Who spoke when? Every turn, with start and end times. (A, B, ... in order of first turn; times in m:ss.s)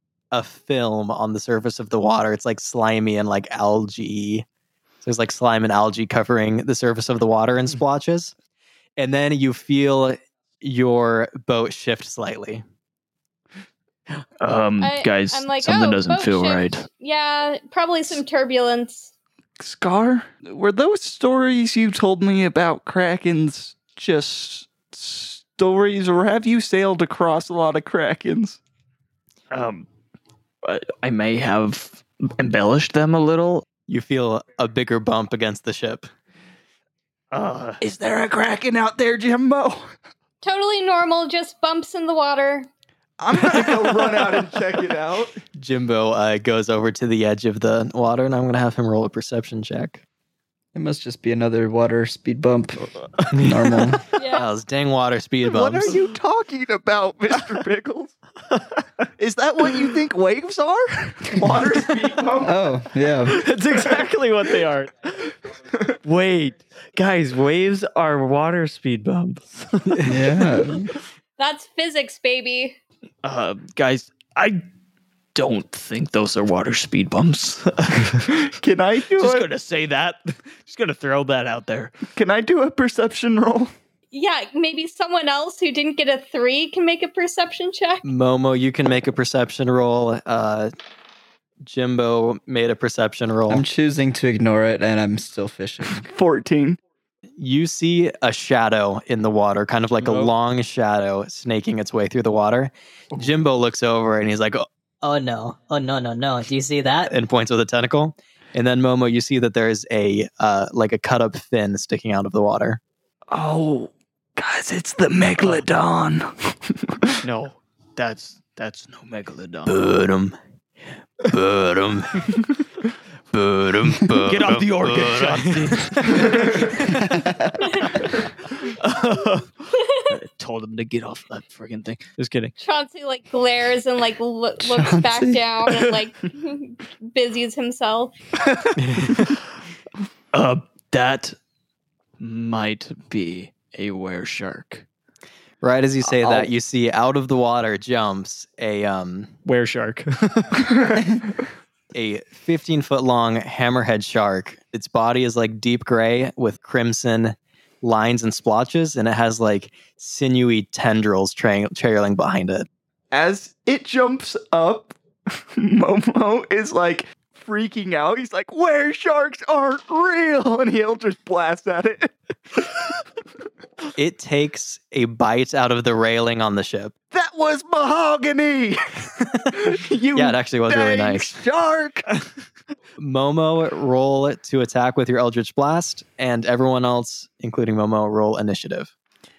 0:00.3-0:04.4 A
0:05.0-0:08.4 A
0:09.0-0:12.6 A
0:14.4-0:16.9 B
0:14.8-0:19.1 C
0:19.6-0:28.6 D
0:29.5-0:29.9 B
0:30.6-0:33.7 B
0:33.9-0:36.1 A
0:37.3-0:37.8 B
0:37.8-0:39.9 D
0:40.4-0:42.7 C
0:43.2-0:45.4 D
0:45.6-0:50.0 A
0:50.7-0:54.0 E
0:54.1-0:54.5 C
0:54.3-0:56.0 A
0:55.4-0:58.2 D
0:59.2-1:02.6 D
1:02.4-1:03.5 E
1:03.3-1:05.3 B
1:06.0-1:10.4 B
1:10.0-1:10.9 E
1:11.4-1:12.8 C
1:13.2-1:14.6 B
1:15.4-1:18.3 B
1:18.5-1:19.5 D
1:19.2-1:22.0 B
1:22.1-1:23.7 D
1:24.1-1:28.0 C
1:28.0-1:30.7 A
1:31.6-1:33.6 A
1:33.5-1:36.1 E
1:35.9-1:36.8 D
1:37.4-1:44.7 A
1:40.0-1:40.3 B
1:45.0-1:47.1 F
1:47.1-1:52.8 A
1:53.3-1:57.1 D
1:55.4-1:55.7 B
1:57.2-1:59.8 B
1:59.7-2:00.4 A
2:01.3-2:02.3 A
2:03.3-2:06.7 A
2:04.2-2:06.8 B
2:06.9-2:07.7 E
2:07.6-2:08.0 C
2:08.6-2:12.6 B
2:09.7-2:10.2 C
2:12.6-2:18.2 C
2:14.6-2:15.5 E
2:18.8-2:19.2 A
2:20.3-2:21.4 B
2:22.2-2:24.8 B
2:25.6-2:29.3 A
2:26.2-2:26.5 B
2:29.4-2:30.7 B
2:31.9-2:42.7 A
2:43.1-2:45.0 D
2:45.6-2:52.8 D
2:54.0-2:57.0 A
2:57.1-3:02.1 D
3:00.2-3:01.4 A
3:03.0-3:08.9 A